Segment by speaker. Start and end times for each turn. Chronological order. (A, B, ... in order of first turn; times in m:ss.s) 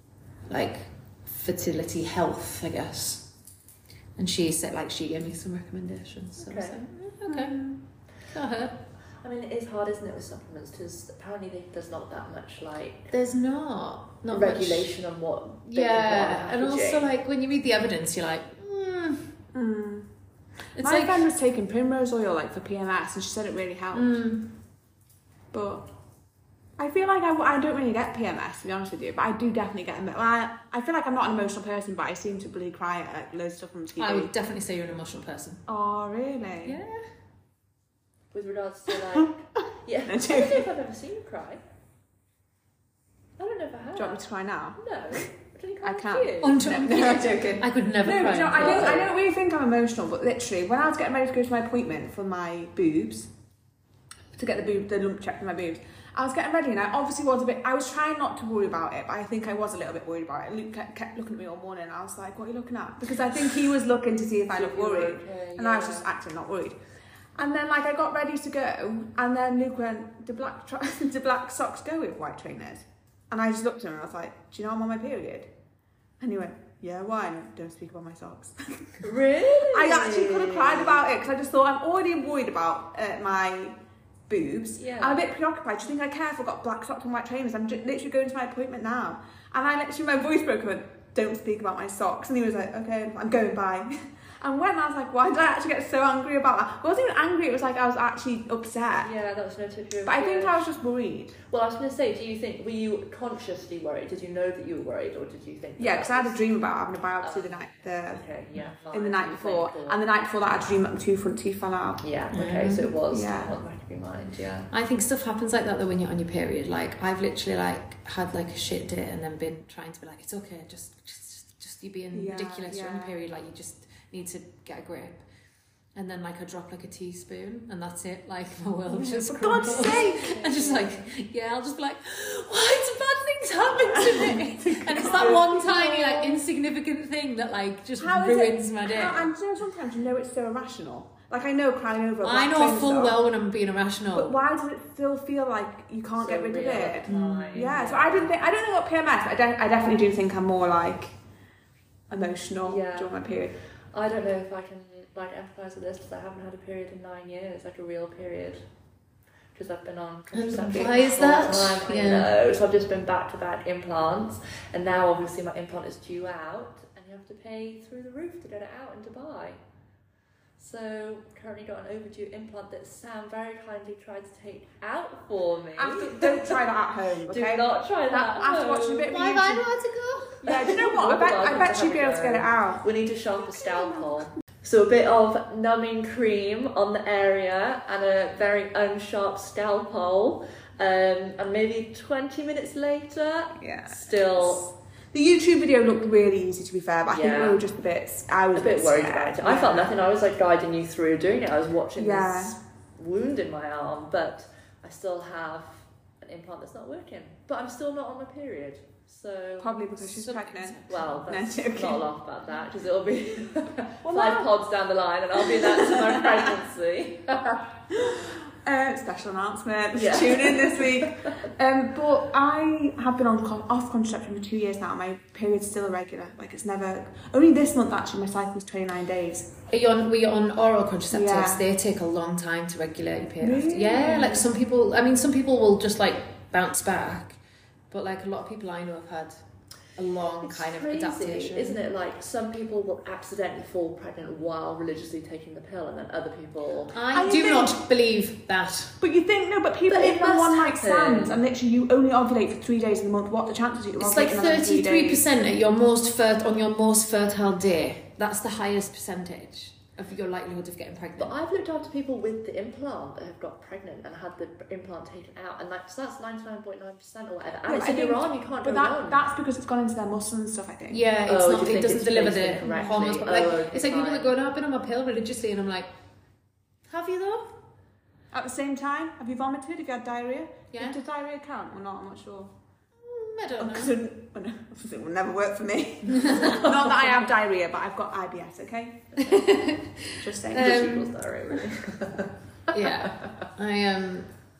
0:00.5-0:03.3 A
0:04.2-0:07.6 A
0:06.4-0:06.8 B
0:07.3-0:07.8 C
0:08.3-0:08.8 A
0:09.2-0:13.1 B
0:13.1-0:14.9 A
0:14.3-0:17.1 B
0:15.6-0:19.3 A
0:19.5-0:20.1 C
0:20.7-0:21.2 A
0:20.8-0:24.2 C
0:23.9-0:24.5 A
0:25.5-0:25.8 C
0:26.8-0:34.3 C
0:34.0-0:35.6 A
0:35.7-0:36.8 C
0:36.6-0:37.0 A
0:38.3-0:41.6 B
0:40.1-0:40.7 C
0:43.4-0:44.2 B
0:44.0-0:45.2 C
0:44.8-0:46.9 B
0:45.8-0:53.3 C
0:46.4-0:49.0 A
0:48.5-0:49.1 B
0:54.4-1:06.8 C
1:04.5-1:06.1 B
1:07.3-1:15.5 C
1:16.2-1:19.1 C
1:19.0-1:21.0 B
1:19.6-1:39.1 C
1:24.8-1:25.2 B
1:39.0-1:40.6 B
1:40.0-1:41.4 C
1:41.5-1:46.4 B
1:45.8-1:48.2 C
1:47.2-1:50.0 B
1:48.9-1:52.0 C
1:52.0-1:54.7 B
1:52.3-1:52.9 A
1:53.1-1:53.5 C
1:54.7-2:05.2 A
2:02.1-2:03.1 C
2:05.9-2:19.3 A
2:08.9-2:11.0 C
2:09.7-2:10.2 B
2:13.8-2:16.4 C
2:18.0-2:23.1 C
2:22.2-2:24.3 A
2:24.1-2:31.1 C
2:26.1-2:28.3 B
2:27.1-2:27.6 A
2:32.1-2:33.5 C
2:32.6-2:33.2 B
2:33.9-2:38.6 B
2:39.5-2:49.6 B
2:40.3-2:42.3 A
2:50.6-2:56.6 B
2:55.8-2:59.7 C
2:57.3-2:59.1 B
2:59.1-3:00.4 A
3:00.4-3:14.7 B
3:00.4-3:02.8 C
3:03.4-3:04.2 C
3:13.6-3:20.0 C
3:17.1-3:17.6 B
3:18.5-3:29.8 B
3:22.0-3:22.6 C
3:29.6-3:32.0 C
3:30.0-3:31.2 A
3:30.9-3:37.6 B
3:34.0-3:34.5 C
3:35.4-3:36.4 C
3:37.9-3:49.6 C
3:39.9-3:41.5 B
3:49.7-3:57.4 A
3:51.1-3:51.6 C
3:53.4-3:54.5 C
3:57.9-3:59.4 A
3:59.9-4:01.8 A
4:00.4-4:07.0 B
4:06.9-4:09.0 A
4:07.1-4:07.8 C
4:09.0-4:15.2 C
4:09.9-4:11.4 B
4:14.0-4:21.3 A
4:21.2-4:29.3 B
4:27.7-4:31.0 C
4:30.9-4:35.9 A
4:31.3-4:34.3 B
4:36.9-4:37.5 A
4:38.3-4:42.5 C
4:40.7-4:41.0 A
4:43.0-4:44.0 A
4:43.6-4:49.3 C
4:46.2-4:46.6 A
4:46.3-4:46.9 B
4:49.2-4:51.1 A
4:50.2-4:51.0 C
4:50.5-4:53.5 B
4:52.7-4:54.3 A